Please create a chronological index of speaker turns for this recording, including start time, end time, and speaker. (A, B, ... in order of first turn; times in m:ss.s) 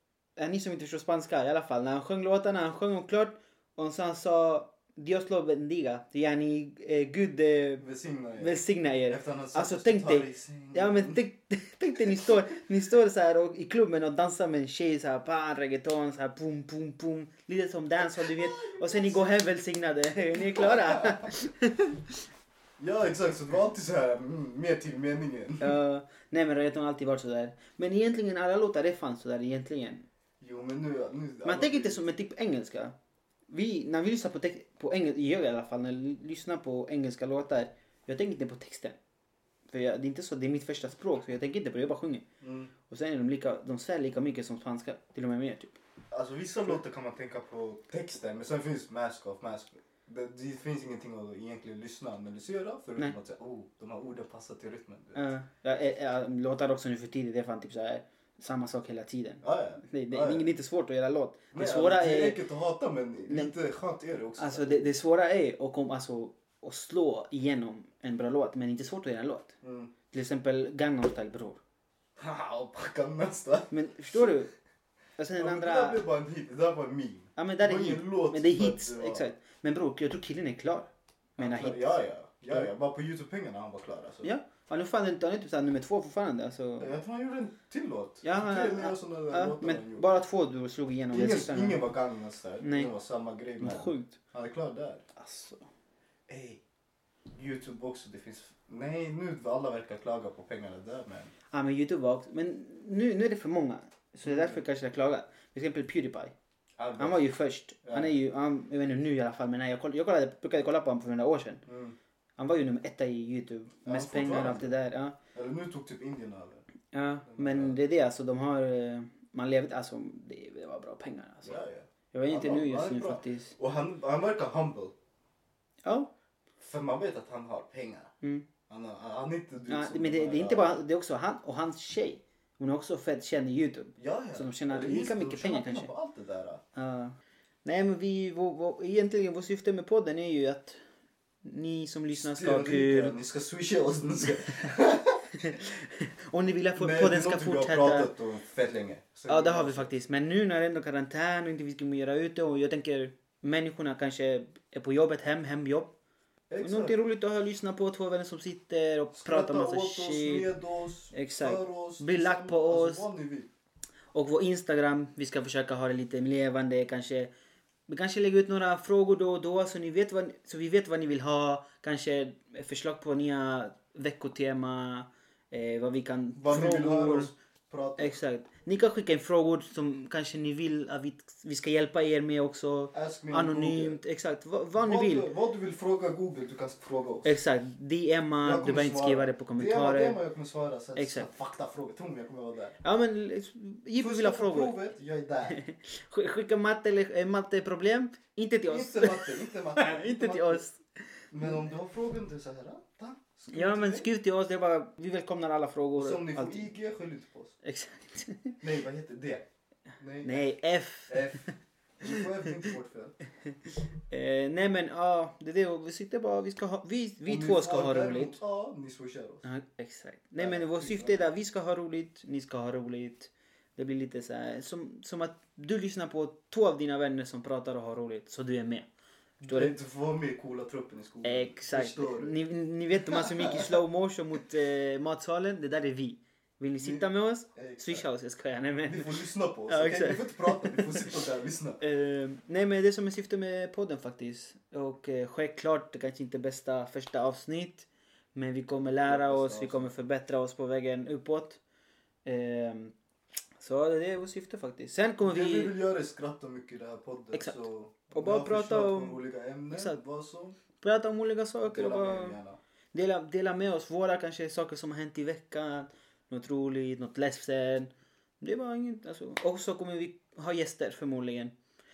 0:00.4-0:07.8 A
0:07.8-0:11.2 B
0:08.4-0:22.2 A
0:12.0-0:12.3 B
0:18.0-0:19.3 B
0:20.3-0:21.3 B
0:22.8-0:25.8 B
0:25.6-0:30.0 A
0:30.4-0:32.0 B
0:31.4-0:33.0 A
0:33.5-0:39.0 A
0:39.7-0:42.2 A
0:42.4-0:42.7 B
0:42.9-0:45.8 A
0:46.1-0:55.3 B
0:55.1-1:02.4 A
0:59.4-1:00.5 B
1:01.5-1:04.9 B
1:03.3-1:03.5 A
1:04.4-1:09.6 A
1:09.6-1:09.9 B
1:10.1-1:11.6 A
1:12.2-1:14.3 B
1:13.7-1:14.5 A
1:15.2-1:16.0 A
1:15.4-1:19.2 B
1:17.4-1:21.9 A
1:21.4-1:24.3 B
1:24.2-1:26.9 A
1:26.8-1:30.0 B
1:28.2-1:31.9 A
1:31.1-1:35.0 B
1:32.6-1:32.9 A
1:33.6-1:34.2 A
1:35.1-1:35.7 A
1:36.3-1:36.6 B
1:37.3-1:41.3 B
1:41.5-1:46.3 A
1:44.2-1:44.6 B
1:46.8-1:47.3 B
1:47.0-1:51.6 A
1:47.8-1:48.1 B
1:51.6-1:52.0 B
1:52.4-1:55.2 A
1:53.8-1:54.7 B
1:55.3-1:56.6 B
1:56.9-2:01.6 A
1:57.3-1:57.8 B
2:01.4-2:04.9 B
2:02.1-2:03.6 A
2:05.8-2:06.1 A
2:06.6-2:08.1 B
2:08.2-2:08.5 A
2:08.7-2:10.8 B
2:09.7-2:15.9 A
2:14.0-2:16.6 B
2:16.7-2:20.8 A
2:21.4-2:23.2 A
2:22.1-2:25.5 B
2:25.4-2:28.1 A
2:26.8-2:29.9 B
2:29.3-2:35.9 A
2:36.5-2:37.0 B
2:36.6-2:40.5 A
2:39.2-2:43.5 B
2:41.1-2:43.1 A
2:44.1-2:47.3 A
2:47.9-2:57.3 A
2:56.4-2:58.2 B
2:58.0-3:05.3 A
3:02.9-3:04.0 B
3:04.8-3:07.3 B
3:07.2-3:10.2 A
3:08.4-3:12.8 B
3:11.0-3:11.3 A
3:12.8-3:14.8 A
3:14.0-3:15.6 B
3:15.4-3:21.6 A
3:18.7-3:20.6 B
3:21.3-3:24.1 B
3:23.5-3:26.7 A
3:25.9-3:27.6 B
3:27.6-3:28.6 A
3:28.6-3:29.4 B
3:30.0-3:30.5 B
3:30.2-3:31.5 A
3:31.1-3:33.2 B
3:32.0-3:32.7 A
3:34.1-3:38.4 A
3:37.2-3:39.4 B
3:39.4-3:48.9 A
3:40.4-3:41.3 B
3:49.4-3:52.4 B
3:49.5-3:49.7 A
3:51.2-4:01.2 A
3:53.1-3:53.8 B
3:56.8-3:58.0 B
3:58.8-4:01.8 B
4:01.8-4:11.6 A
4:09.0-4:09.9 B
4:12.2-4:12.9 A
4:13.6-4:15.7 A
4:15.2-4:20.6 B
4:17.3-4:20.0 A
4:20.8-4:22.4 A
4:21.6-4:22.6 B
4:22.9-4:31.5 A